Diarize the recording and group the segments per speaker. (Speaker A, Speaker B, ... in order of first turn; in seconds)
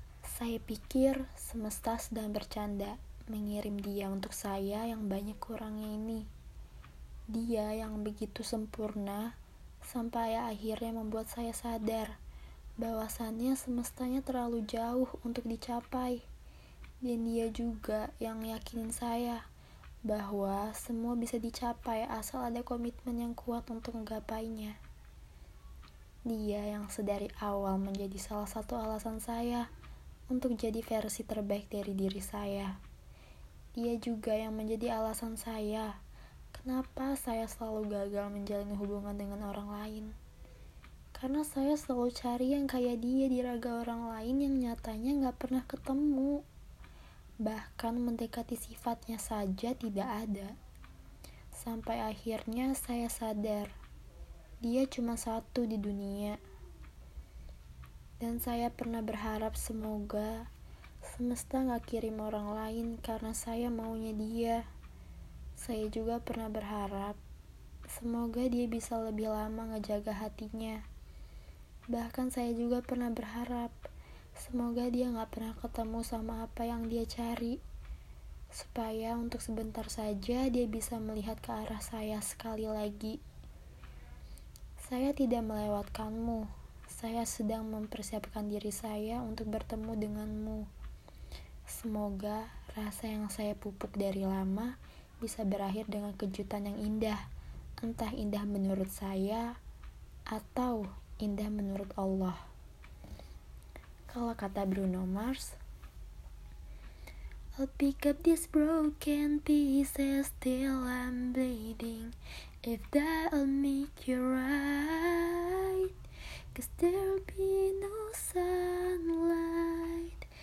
Speaker A: 0.3-6.3, 7.3-9.3, 9.9-12.1, 12.8-16.2, 17.0-19.4, 20.1-24.8, 26.3-29.7, 30.3-32.7, 33.8-35.9, 36.5-40.1, 41.2-46.4, 47.4-50.5, 51.6-53.7, 54.6-56.4, 58.2-60.5, 61.1-64.6, 65.6-67.2, 67.9-70.8, 71.9-73.8, 74.4-77.6, 78.5-83.2, 84.8-90.7, 91.7-97.2, 97.8-99.5, 100.3-102.4, 104.1-105.6, 107.6-115.9, 116.5-120.3